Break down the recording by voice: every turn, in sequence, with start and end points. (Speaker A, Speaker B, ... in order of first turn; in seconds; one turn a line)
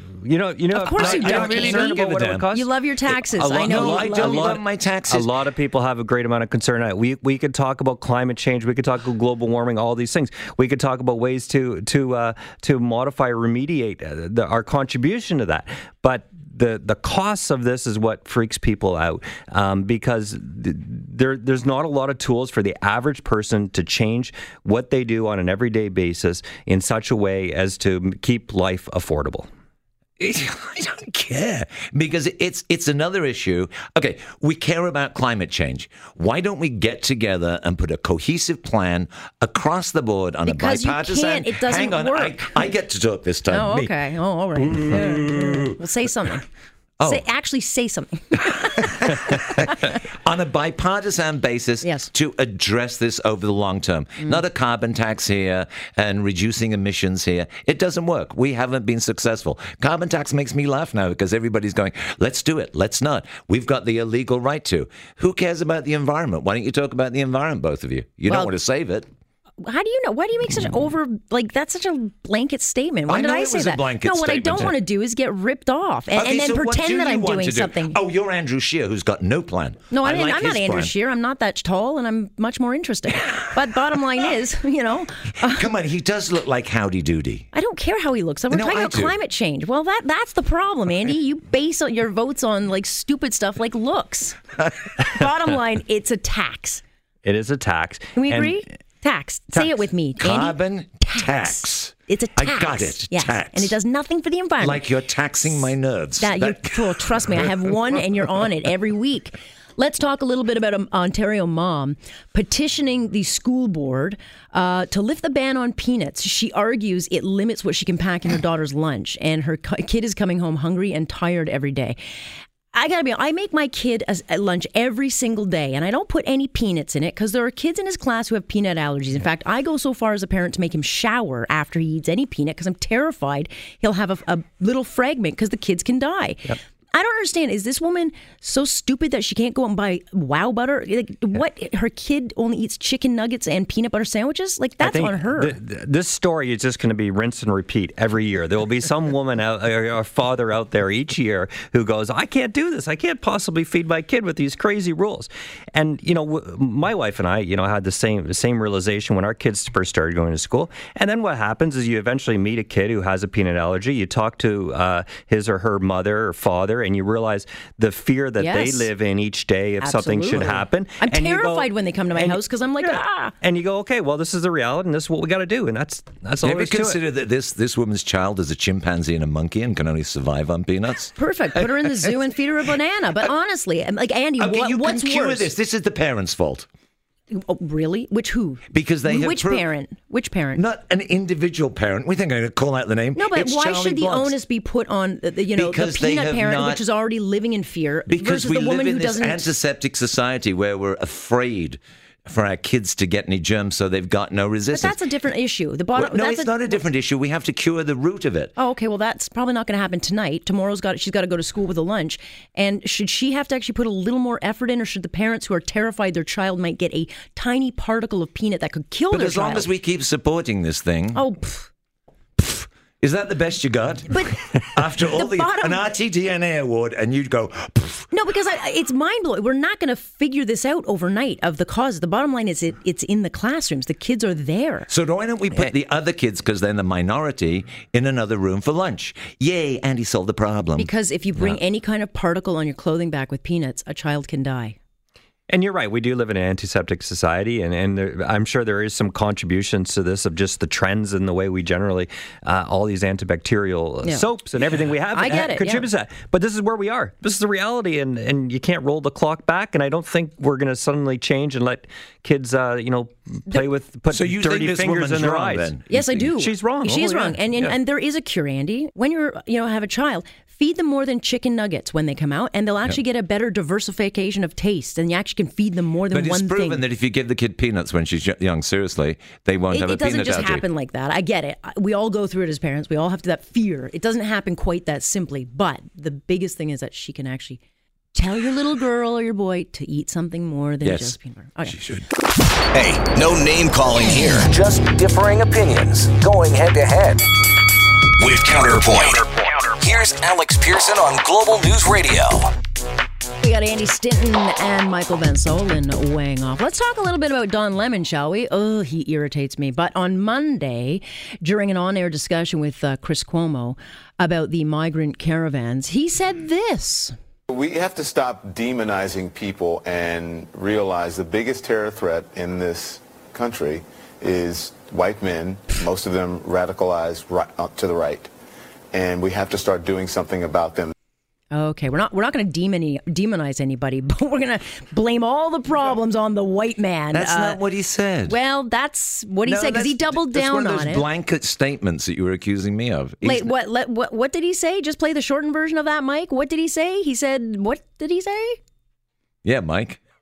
Speaker A: 0.2-29.5
Speaker B: 0.7-4.6
Speaker C: 0.9-2.5
Speaker C: 3.6-5.3
Speaker C: 30.2-43.9
Speaker B: 40.5-42.5
Speaker B: 43.5-46.5
Speaker C: 44.9-45.7
Speaker C: 47.0-47.2
Speaker B: 47.0-49.7
Speaker C: 48.9-69.1
Speaker B: 51.8-52.1
Speaker B: 68.3-68.5
Speaker B: 69.6-78.0
Speaker C: 73.1-74.8
Speaker C: 76.1-80.9
Speaker B: 79.9-85.7
Speaker C: 85.4-87.5
Speaker B: 87.5-94.4
Speaker C: 88.5-89.2
Speaker B: 95.0-96.8
Speaker A: 97.2-98.6
Speaker B: 98.2-104.9
Speaker C: 100.2-103.7
Speaker C: 104.6-107.0
Speaker B: 106.2-122.0
Speaker B: 122.7-145.6
Speaker A: 144.8-177.0
Speaker B: 168.4-168.9
Speaker B: 169.8-173.3
Speaker C: 176.4-181.1
Speaker B: 181.2-185.5
Speaker C: 184.4-186.7
Speaker B: 187.3-190.6
Speaker C: 188.7-189.7
Speaker C: 190.6-194.4
Speaker B: 193.2-199.5
Speaker C: 195.5-196.8
Speaker C: 198.1-205.0
Speaker B: 204.7-206.7
Speaker C: 206.0-208.5
Speaker B: 208.6-219.7
Speaker C: 219.1-221.2
Speaker B: 221.1-221.7
Speaker C: 222.4-228.1
Speaker B: 224.1-225.8
Speaker B: 228.1-234.9
Speaker C: 234.9-240.9
Speaker B: 240.8-244.8
Speaker A: 245.5-265.8
Speaker B: 255.1-255.9
Speaker C: 264.1-266.3
Speaker B: 265.9-276.8
Speaker A: 266.4-267.7
Speaker C: 276.1-280.6
Speaker B: 279.7-287.6
Speaker B: 288.1-291.8
Speaker C: 290.8-292.1
Speaker D: 292.7-295.2
Speaker E: 292.9-297.2
Speaker D: 296.2-297.1
Speaker E: 298.2-302.5
Speaker D: 298.2-299.9
Speaker B: 303.4-317.1
Speaker F: 317.5-328.3
Speaker F: 328.9-330.9
Speaker B: 331.5-337.6
Speaker C: 337.1-338.4
Speaker B: 338.3-341.1
Speaker C: 339.4-343.5
Speaker B: 343.2-348.6
Speaker C: 349.4-350.0